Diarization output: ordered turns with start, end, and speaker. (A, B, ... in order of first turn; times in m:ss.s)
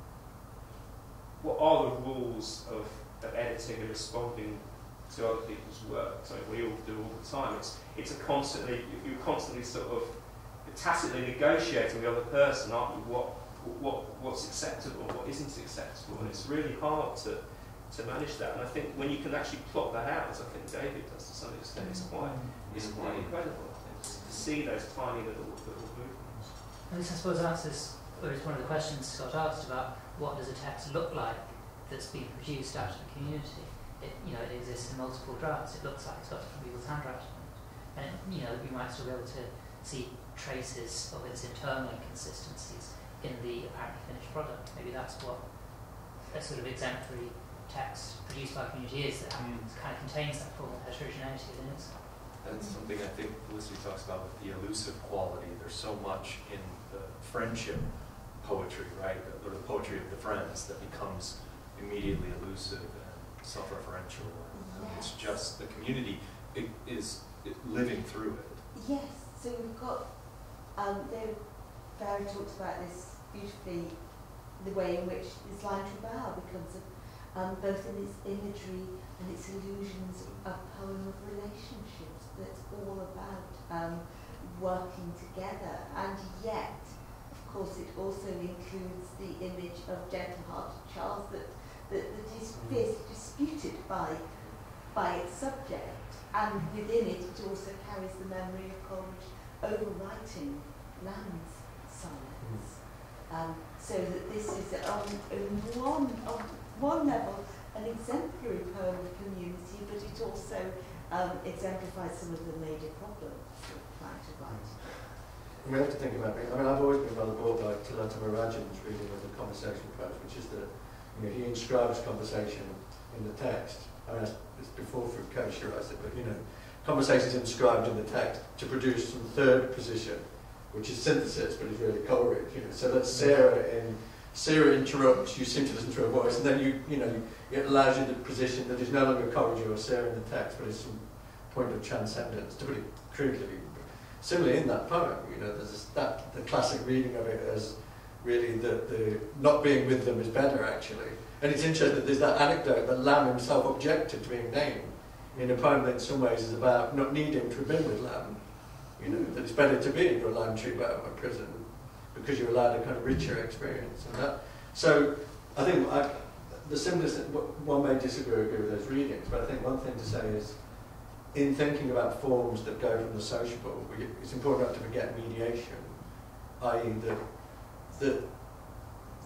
0:01.4-0:26.7 A
0:16.1-0:16.5 B
0:21.8-0:22.1 C
0:22.6-0:24.5 B
0:26.9-0:52.0 C
0:49.3-0:49.7 B
0:52.4-1:08.6 B
0:52.5-0:52.8 D
1:04.5-1:05.4 D
1:08.7-1:55.1 D
1:32.5-1:32.9 E
1:42.4-1:42.7 E
1:54.4-2:59.0 E